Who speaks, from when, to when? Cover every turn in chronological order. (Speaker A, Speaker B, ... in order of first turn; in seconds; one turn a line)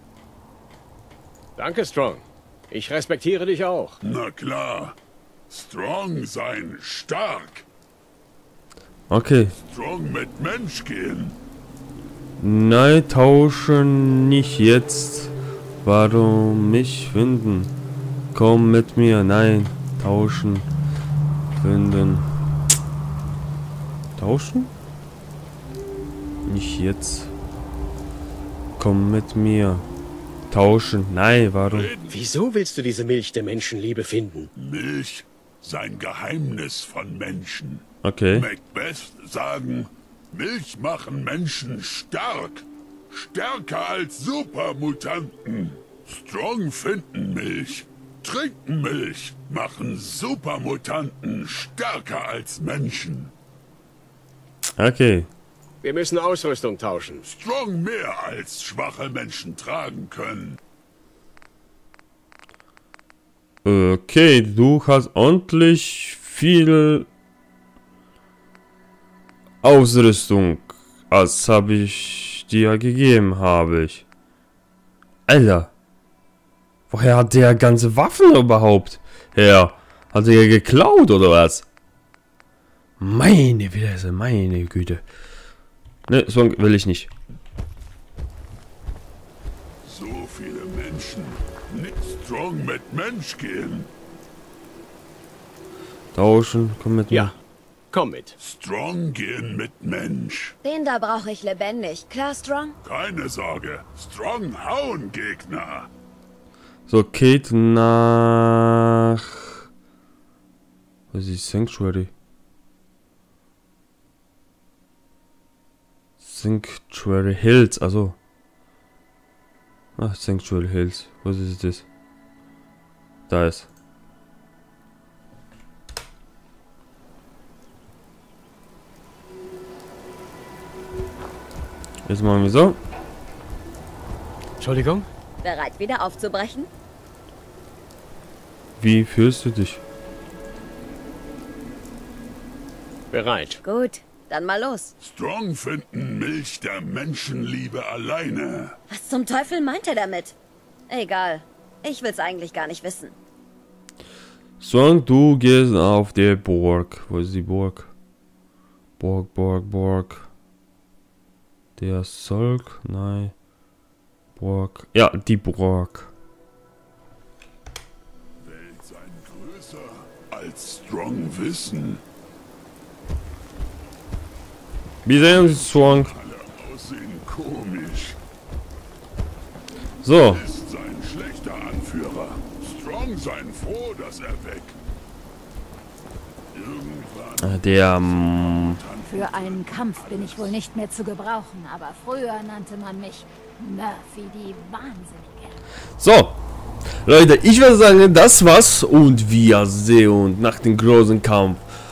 Speaker A: 1.6-4.0
Speaker B: 4.0-5.0
Speaker B: 5.5-7.7
Speaker C: 9.1-9.6
Speaker B: 9.6-11.4
Speaker C: 12.4-17.7
Speaker C: 18.3-20.7
Speaker C: 21.6-22.3
Speaker C: 24.2-24.7
Speaker C: 26.5-27.3
Speaker C: 28.8-29.9
Speaker C: 30.5-31.9
Speaker B: 31.7-32.2
Speaker A: 32.1-34.5
Speaker B: 34.5-53.3
Speaker C: 38.0-38.5
Speaker C: 54.8-55.3
Speaker A: 55.8-57.2
Speaker B: 57.2-60.6
Speaker C: 63.6-67.1
Speaker C: 69.6-74.0
Speaker C: 75.3-75.7
Speaker C: 76.9-81.7
Speaker C: 83.0-85.0
Speaker C: 86.1-87.1
Speaker B: 89.8-93.9
Speaker C: 96.1-97.3
Speaker A: 97.9-98.4
Speaker B: 98.4-100.6
Speaker D: 100.6-102.8
Speaker B: 102.8-105.9
Speaker C: 106.9-109.7
Speaker C: 111.1-112.1
Speaker C: 116.2-118.2
Speaker C: 120.0-121.9
Speaker C: 123.3-123.7
Speaker C: 132.1-132.8
Speaker A: 134.6-135.1
Speaker D: 135.4-136.7
Speaker C: 138.8-139.8
Speaker A: 143.1-143.6
Speaker D: 143.6-144.9
Speaker B: 145.0-148.8
Speaker D: 148.9-150.4
Speaker D: 150.9-153.2
Speaker C: 154.6-157.9
Speaker C: 159.0-160.3
Speaker C: 161.8-163.3
Speaker C: 164.4-166.1
Speaker B: 168.4-172.0
Speaker C: 175.1-176.1
Speaker B: 175.3-178.2
Speaker C: 180.0-180.4
Speaker B: 180.2-184.8
Speaker B: 186.5-190.6
Speaker C: 187.4-188.8
Speaker E: 189.0-195.6
Speaker C: 196.0-196.4
Speaker C: 197.1-201.6